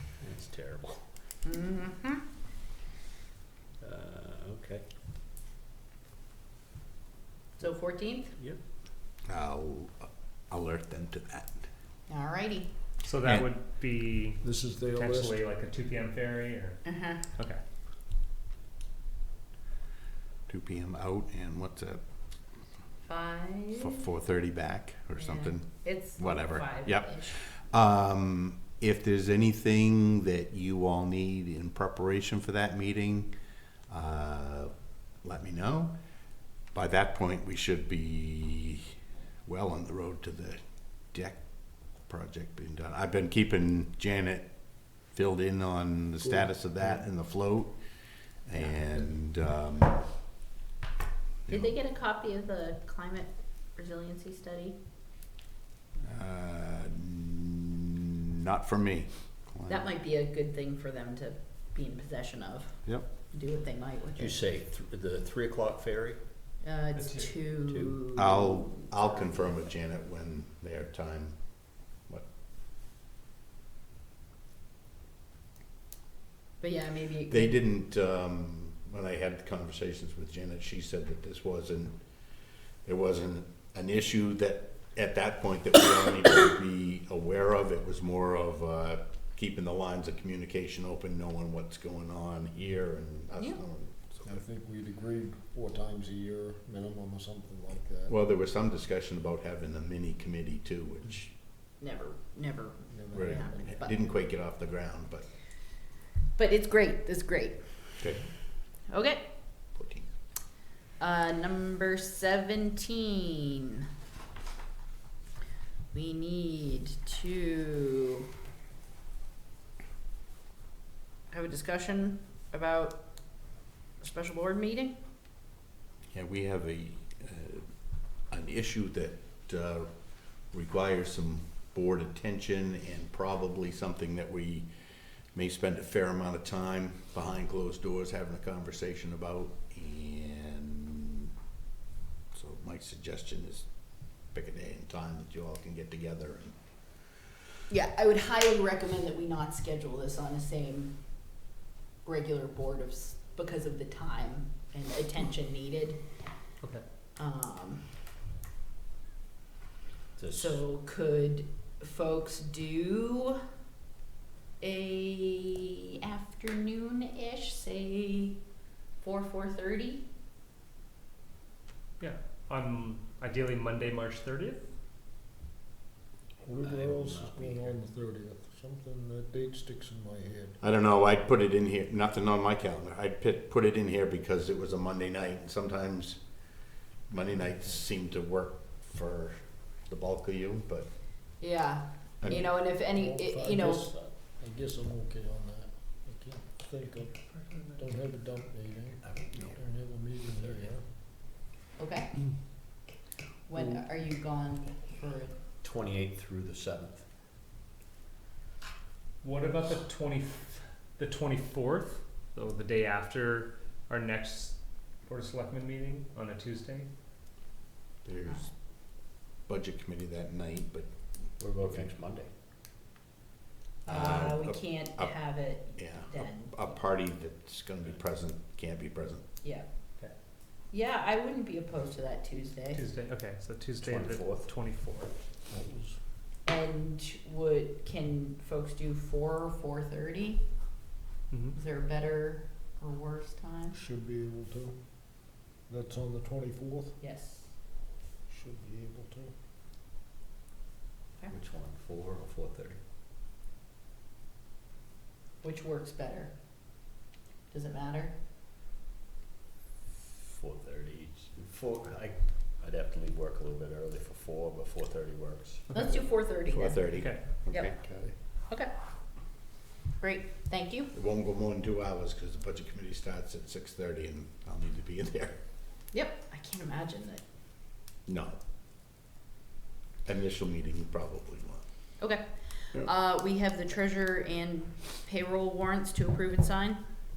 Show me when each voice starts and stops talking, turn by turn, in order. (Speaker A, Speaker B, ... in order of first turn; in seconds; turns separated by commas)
Speaker A: 0.2-1.0, Speaker B: 1.4-2.2, Speaker A: 3.8-5.0, Speaker B: 7.6-8.4, Speaker A: 8.3-8.6, Speaker C: 9.2-11.6, Speaker B: 12.1-12.7, Speaker D: 13.0-17.6, Speaker E: 14.4-15.4, Speaker B: 16.9-17.2, Speaker C: 20.5-22.0, Speaker B: 23.0-24.1, Speaker C: 23.8-33.3, Speaker B: 25.1-27.4, Speaker C: 33.9-35.9, Speaker C: 36.7-40.6, Speaker C: 41.1-41.4, Speaker C: 42.0-47.8, Speaker E: 46.2-47.0, Speaker C: 48.4-50.0, Speaker C: 51.5-51.7, Speaker B: 51.5-54.8, Speaker C: 56.0-59.9, Speaker B: 59.7-64.4, Speaker A: 64.2-66.2, Speaker B: 66.6-69.6, Speaker D: 67.0-67.3, Speaker A: 67.5-68.1, Speaker C: 68.1-71.4, Speaker B: 76.6-77.6, Speaker C: 77.3-82.0, Speaker C: 82.8-94.4, Speaker E: 94.2-98.2, Speaker C: 98.1-101.3, Speaker B: 101.8-104.0, Speaker E: 102.9-103.7, Speaker C: 103.1-105.3, Speaker B: 106.3-108.1, Speaker C: 108.0-108.3, Speaker B: 108.9-109.3, Speaker C: 109.7-110.1, Speaker B: 111.0-113.8, Speaker B: 115.9-118.3, Speaker B: 121.3-125.0, Speaker C: 126.1-127.7, Speaker C: 128.3-129.9, Speaker C: 130.5-134.7, Speaker C: 135.3-141.3, Speaker C: 142.3-143.7, Speaker C: 144.3-146.6, Speaker B: 147.7-151.5, Speaker B: 152.0-156.0, Speaker B: 157.2-157.9, Speaker A: 160.2-160.6, Speaker B: 160.3-163.4, Speaker B: 164.6-168.4, Speaker B: 169.0-170.1, Speaker D: 172.0-174.7, Speaker E: 176.4-180.6, Speaker A: 176.6-177.8, Speaker C: 180.6-186.2, Speaker C: 187.1-190.9, Speaker B: 191.4-193.9, Speaker C: 192.2-192.5, Speaker E: 192.9-200.8, Speaker D: 196.9-197.9, Speaker A: 199.0-199.5, Speaker A: 200.4-200.7, Speaker B: 201.8-202.5, Speaker B: 203.5-205.4, Speaker A: 205.6-207.1, Speaker D: 209.2-216.9, Speaker C: 218.0-218.5, Speaker C: 219.4-220.9, Speaker A: 221.4-222.3, Speaker C: 223.8-225.2, Speaker B: 223.8-226.8, Speaker C: 225.8-229.2, Speaker B: 229.4-229.7, Speaker B: 230.7-232.8, Speaker D: 232.7-235.1, Speaker A: 233.8-234.5, Speaker E: 235.5-236.0, Speaker B: 236.4-240.5, Speaker D: 241.3-241.6, Speaker B: 241.5-243.8, Speaker E: 243.7-244.8, Speaker E: 245.6-247.0, Speaker B: 247.0-247.5, Speaker E: 248.3-249.3, Speaker A: 251.3-252.8, Speaker B: 255.4-256.3, Speaker B: 257.5-258.2, Speaker A: 260.0-266.1, Speaker B: 265.7-266.9, Speaker C: 266.5-268.1, Speaker D: 266.9-267.2, Speaker B: 267.5-267.8, Speaker B: 270.0-270.9, Speaker C: 270.9-275.4, Speaker B: 275.9-277.2, Speaker C: 278.1-278.4, Speaker C: 280.1-281.6, Speaker B: 282.0-286.8